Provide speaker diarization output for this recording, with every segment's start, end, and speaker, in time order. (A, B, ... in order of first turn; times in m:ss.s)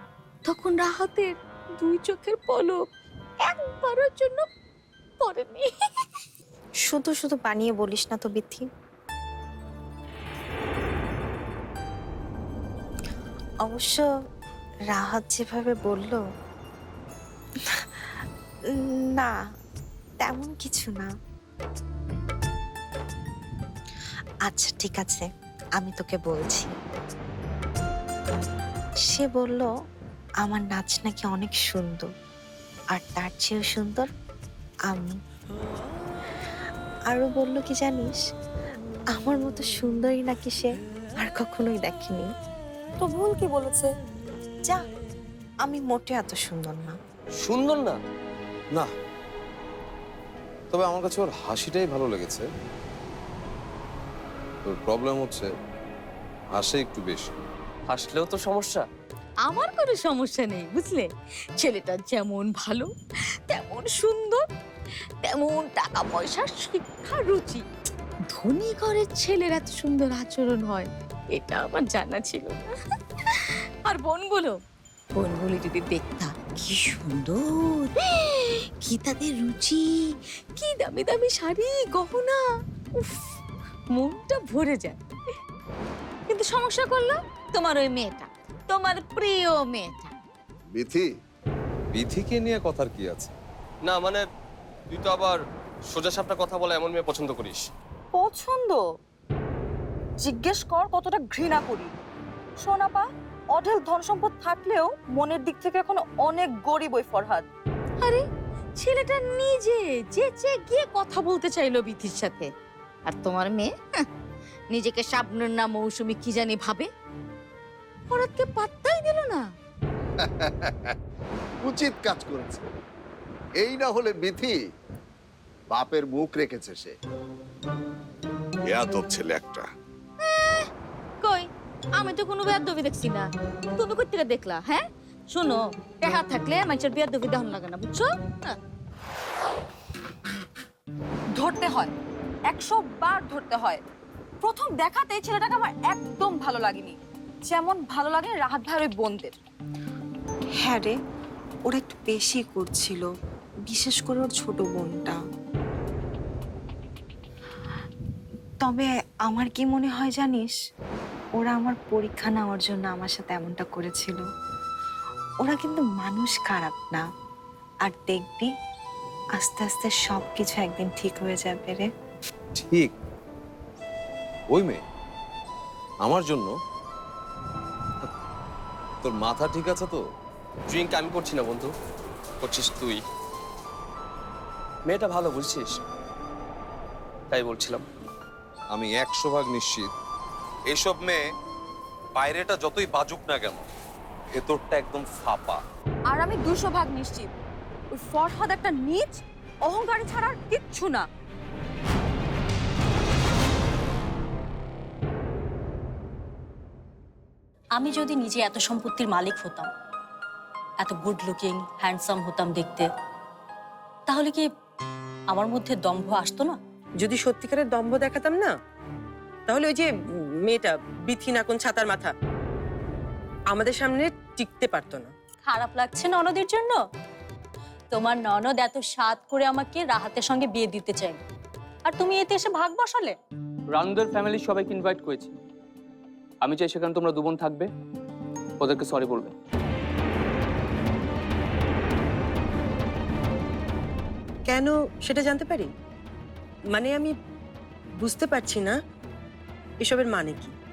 0:00.4-0:02.9 A
0:03.4-0:04.5 A
0:05.2-0:05.7 A
0:06.9-0:08.7 B
0:13.6-0:14.1 B
0:14.9-0:16.2 B
0:18.7-0:19.3 B
0:20.2-0:21.1 B
0:24.5-0:25.2 B
0:25.8-0:26.7 B
0:29.1-0:29.7 B
0:30.4-0:32.1 B
0:33.0-0:34.1 B
0:34.9-0:35.2 B
0:37.1-0:38.2 B
0:39.2-0:40.7 B
0:41.2-0:42.3 B
0:43.0-0:43.9 C
0:45.6-0:46.9 B
0:47.4-0:48.0 D
0:50.7-0:52.4 E
0:54.6-0:55.5 E
0:56.5-0:57.4 E
0:57.9-0:58.8 D
0:59.4-1:01.1 A
1:01.6-1:02.9 A
1:03.5-1:04.4 A
1:05.2-1:07.6 A
1:08.3-1:12.7 A
1:13.2-1:14.6 A
1:15.2-1:23.3 A
1:23.9-1:25.0 A
1:26.3-1:30.1 A
1:30.7-1:31.1 F
1:31.9-1:33.3 E
1:33.8-1:34.2 D
1:34.9-1:37.7 D
1:38.1-1:38.8 C
1:40.2-1:41.9 C
1:42.6-1:47.5 C
1:48.8-1:52.5 A
1:53.1-1:54.1 A
1:54.7-1:56.9 A
1:58.1-1:59.5 A
2:00.4-2:00.9 F
2:01.6-2:02.7 F
2:03.6-2:04.6 F
2:05.7-2:07.0 F
2:08.7-2:09.7 F
2:10.2-2:10.7 A
2:11.2-2:18.6 A
2:21.4-2:21.9 C
2:22.5-2:23.8 C
2:24.4-2:27.0 C
2:27.5-2:29.4 C
2:30.6-2:30.9 B
2:31.7-2:33.1 B
2:33.7-2:35.2 B
2:38.6-2:40.6 B
2:41.4-2:44.2 B
2:45.4-2:47.0 B
2:47.9-2:48.5 B
2:49.4-2:51.9 B
2:52.6-2:52.9 E
2:54.5-2:54.8 E
2:56.0-2:56.5 E
2:59.0-3:00.0 E
3:00.7-3:01.7 D
3:02.4-3:03.0 D
3:04.9-3:05.8 D
3:07.3-3:07.8 D
3:08.7-3:09.9 E
3:10.7-3:11.2 E
3:12.2-3:13.7 E
3:14.3-3:15.6 E
3:16.1-3:17.4 C
3:17.9-3:21.1 C
3:27.8-3:29.7 G
3:30.8-3:32.9 G
3:34.1-3:34.5 G
3:35.3-3:36.6 G
3:37.0-3:38.6 H
3:39.5-3:42.1 H
3:43.5-3:45.1 H
3:45.4-3:46.8 G
3:47.9-3:51.2 G
3:51.9-3:53.2 G
3:53.7-3:55.4 D
3:56.4-3:57.7 D
3:58.6-3:59.3 D
4:04.5-4:05.7 H
4:06.7-4:07.1 H
4:08.0-4:08.8 H
4:09.8-4:10.5 H